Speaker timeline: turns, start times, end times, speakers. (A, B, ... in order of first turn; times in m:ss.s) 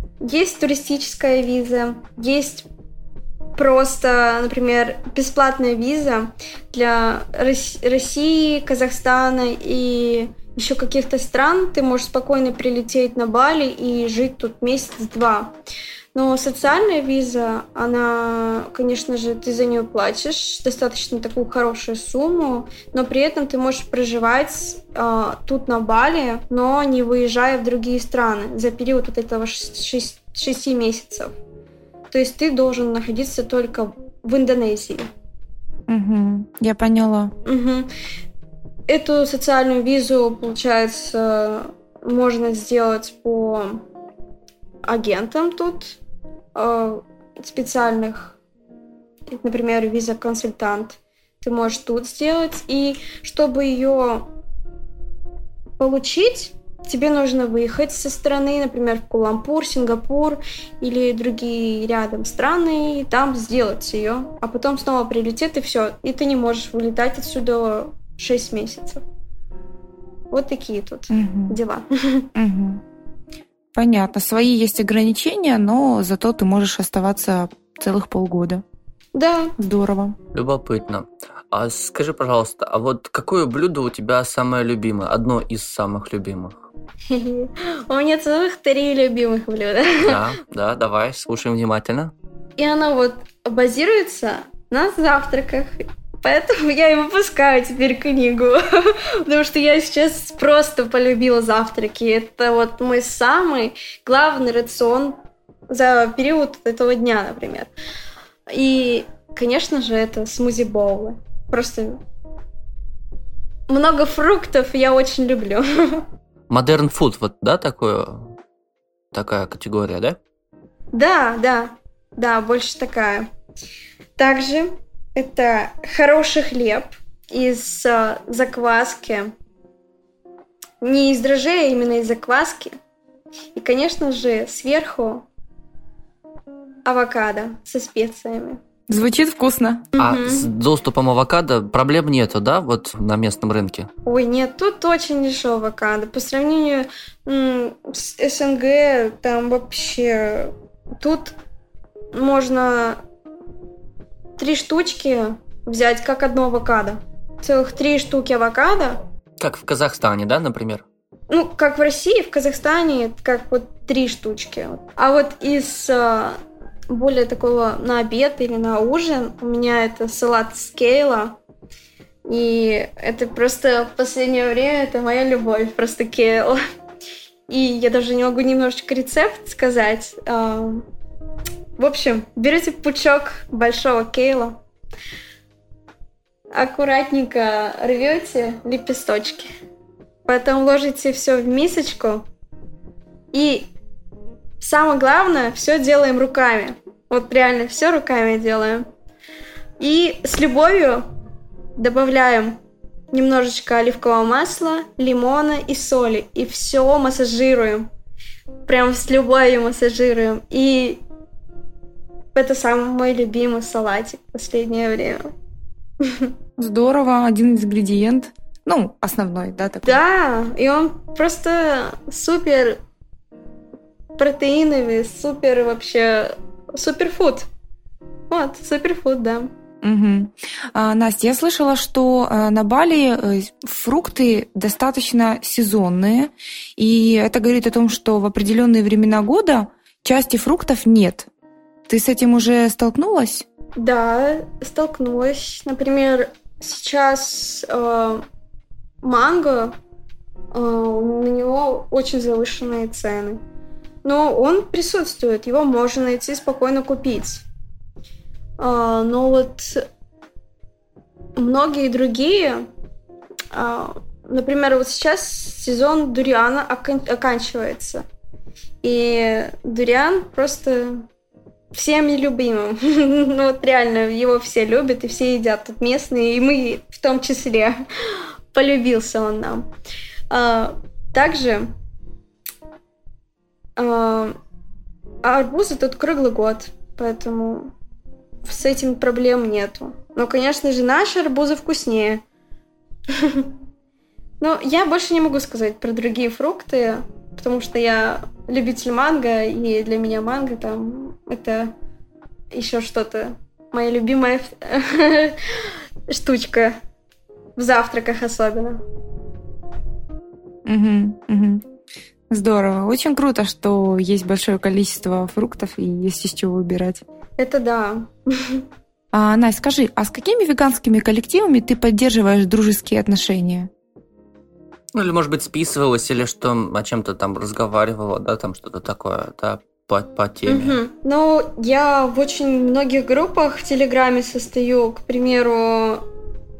0:00.2-0:02.6 A
0:03.6-0:15.5 A
0:16.1-0:31.3 A
0:32.1-0:35.1 A
0:35.9-0:37.3 B
0:37.4-0:37.9 A
0:38.9-0:43.8 A
0:44.8-0:46.0 A
0:46.5-0:48.4 A
0:49.3-0:54.3 A
0:55.8-1:09.0 A
1:10.3-1:12.3 A
1:11.1-1:11.6 B
1:12.3-1:12.8 B
1:13.7-1:18.6 B
1:19.1-1:19.5 A
1:19.6-1:20.2 B
1:20.3-1:26.7 C
1:27.1-1:30.2 A
1:30.0-1:32.1 C
1:32.6-1:45.2 A
1:45.7-1:47.7 A
1:48.5-1:52.0 A
1:53.7-1:56.0 A
1:56.5-1:58.3 C
1:59.1-2:00.2 C
2:00.9-2:03.3 A
2:04.2-2:09.3 A
2:10.8-2:12.8 A
2:13.6-2:15.3 A
2:16.8-2:18.6 A
2:18.9-2:19.9 B
2:20.0-2:20.5 A
2:20.0-2:23.9 C
2:24.0-2:31.3 A
2:32.1-2:33.0 A
2:34.4-2:39.0 A
2:39.4-2:40.8 C
2:41.3-2:46.4 A
2:46.9-2:51.4 A
2:52.3-2:56.6 A
2:57.5-3:00.8 A
3:01.8-3:04.6 A
3:06.5-3:09.5 A
3:10.2-3:12.2 A
3:13.3-3:13.7 A
3:14.6-3:18.8 A
3:19.8-3:21.0 A
3:21.8-3:22.6 A
3:23.1-3:27.9 A
3:28.6-3:31.0 A
3:32.3-3:35.3 A
3:36.0-3:36.3 A
3:36.6-3:40.0 B
3:39.8-3:42.8 A
3:44.2-3:47.5 A
3:48.3-3:49.5 A
3:49.8-4:01.3 B
4:01.9-4:03.4 B
4:03.8-4:08.2 A
4:09.0-4:09.8 A
4:10.5-4:13.4 A
4:14.0-4:17.4 A
4:18.6-4:19.8 A
4:21.4-4:22.7 A
4:23.5-4:28.0 A
4:28.8-4:31.0 A
4:31.7-4:37.8 A
4:38.5-4:39.7 A
4:40.3-4:41.7 A
4:43.8-4:44.4 A
4:45.2-4:47.7 A
4:48.4-4:52.2 A
4:53.2-4:53.5 A
4:54.4-5:01.7 A
5:02.5-5:05.4 A
5:06.1-5:06.8 A
5:07.6-5:08.8 A
5:10.6-5:11.6 B
5:12.3-5:17.0 B
5:17.4-5:18.6 A
5:19.1-5:23.7 B
5:24.9-5:30.8 C
5:30.5-5:36.0 A